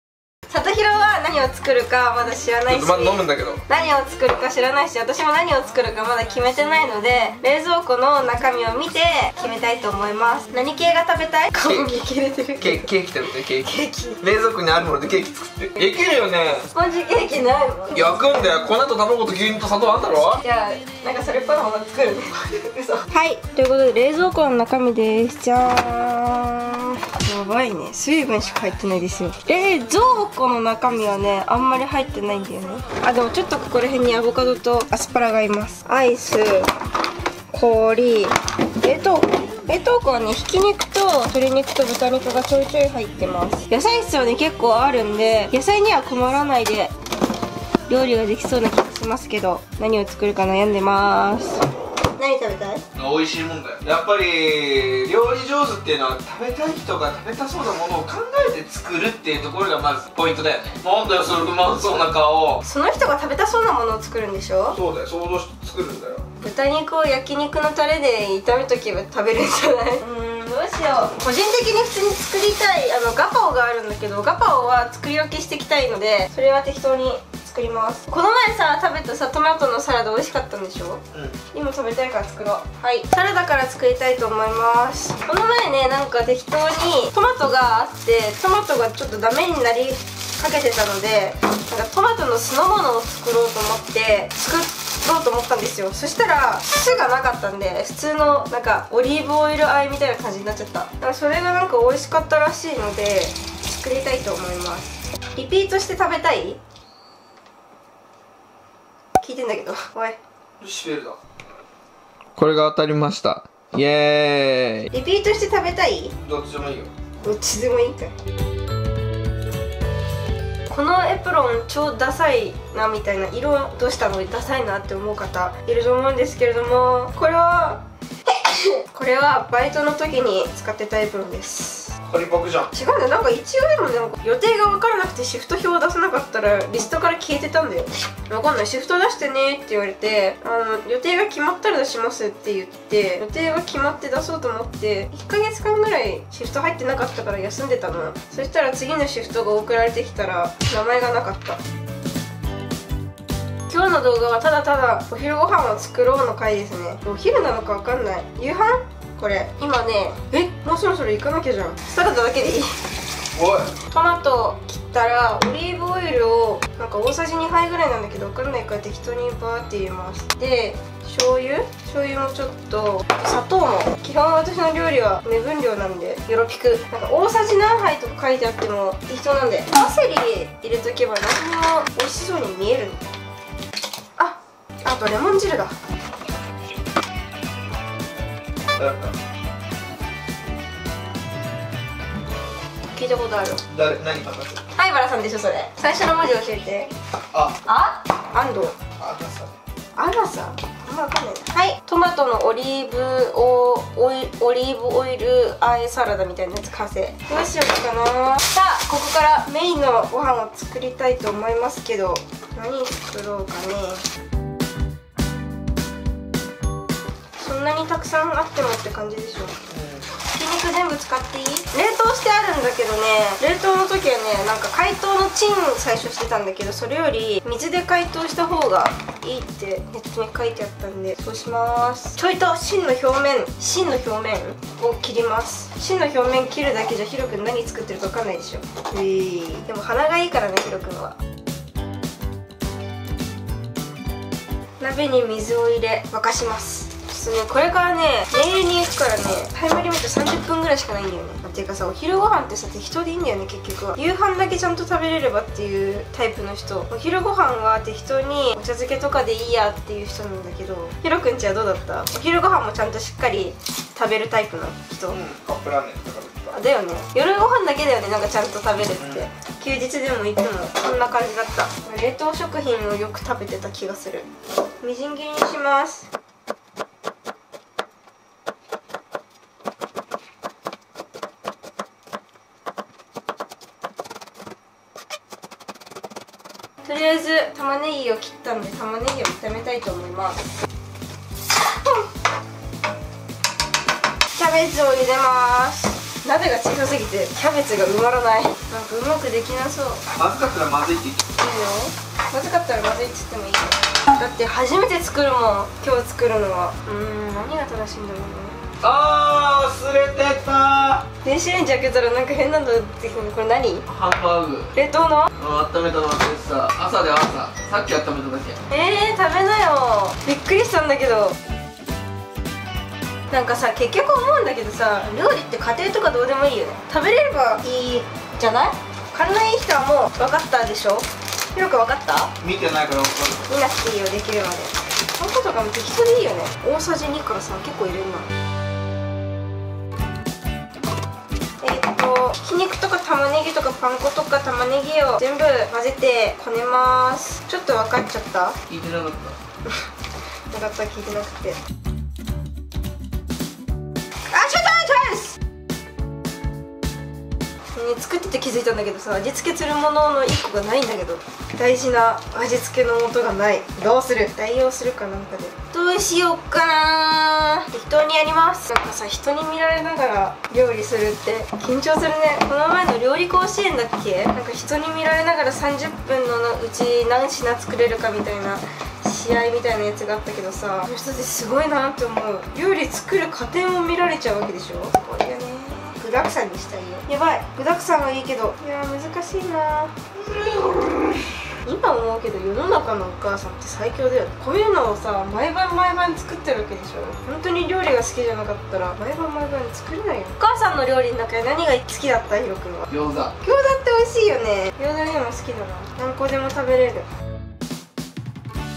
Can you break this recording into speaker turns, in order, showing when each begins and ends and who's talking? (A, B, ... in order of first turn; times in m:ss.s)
0:00.5-0:12.9 A
0:02.7-0:03.6 B
0:12.6-0:13.7 B
0:13.6-0:14.2 A
0:14.2-0:16.7 B
0:16.7-0:18.4 A
0:17.9-0:20.4 B
0:20.4-0:36.7 A
0:37.5-0:46.9 A
0:47.9-0:52.8 A
0:53.0-1:02.6 B
1:02.6-1:04.8 A
1:04.7-1:06.2 B
1:06.4-1:46.6 A
1:21.1-1:21.4 B
1:49.2-1:50.2 A
1:50.6-1:51.2 B
1:52.4-1:54.9 B
1:54.9-1:56.1 A
1:56.2-1:56.9 B
1:57.2-1:58.1 A
2:00.7-2:12.0 A
2:12.0-2:12.7 B
2:12.7-2:31.6 A
2:33.7-2:42.8 A
2:43.3-2:43.7 B
2:43.8-3:03.1 A
3:04.2-3:05.7 A
3:08.8-3:09.1 B
3:12.9-3:13.6 A
3:13.7-3:14.6 B
3:14.7-3:16.9 A
3:17.6-3:18.9 A
3:19.0-3:19.5 B
3:20.0-3:34.0 A
3:37.4-3:39.6 A
3:39.7-3:40.0 B
3:40.2-4:01.2 A
4:04.8-4:25.2 A
4:25.1-4:26.6 B
4:26.5-4:34.3 A
4:29.0-4:29.3 B
4:34.8-4:36.1 A
4:46.8-4:50.4 A
4:51.5-4:52.1 A
4:54.3-5:00.0 A
5:00.1-5:01.2 B
5:01.3-5:08.7 A
5:08.8-5:11.1 B
5:11.2-5:13.9 A
5:13.9-5:14.7 B
5:14.7-5:15.3 A
5:15.4-5:18.6 B
5:18.7-5:21.3 A
5:23.3-5:32.3 A
5:32.4-5:33.5 B
5:33.5-5:38.3 A
5:41.6-5:48.6 A
5:48.7-5:49.3 B
5:50.5-5:51.6 A
5:54.3-5:55.4 A
5:57.7-6:30.7 A
6:31.6-6:42.9 A
6:42.9-6:43.3 B
6:43.4-6:47.1 A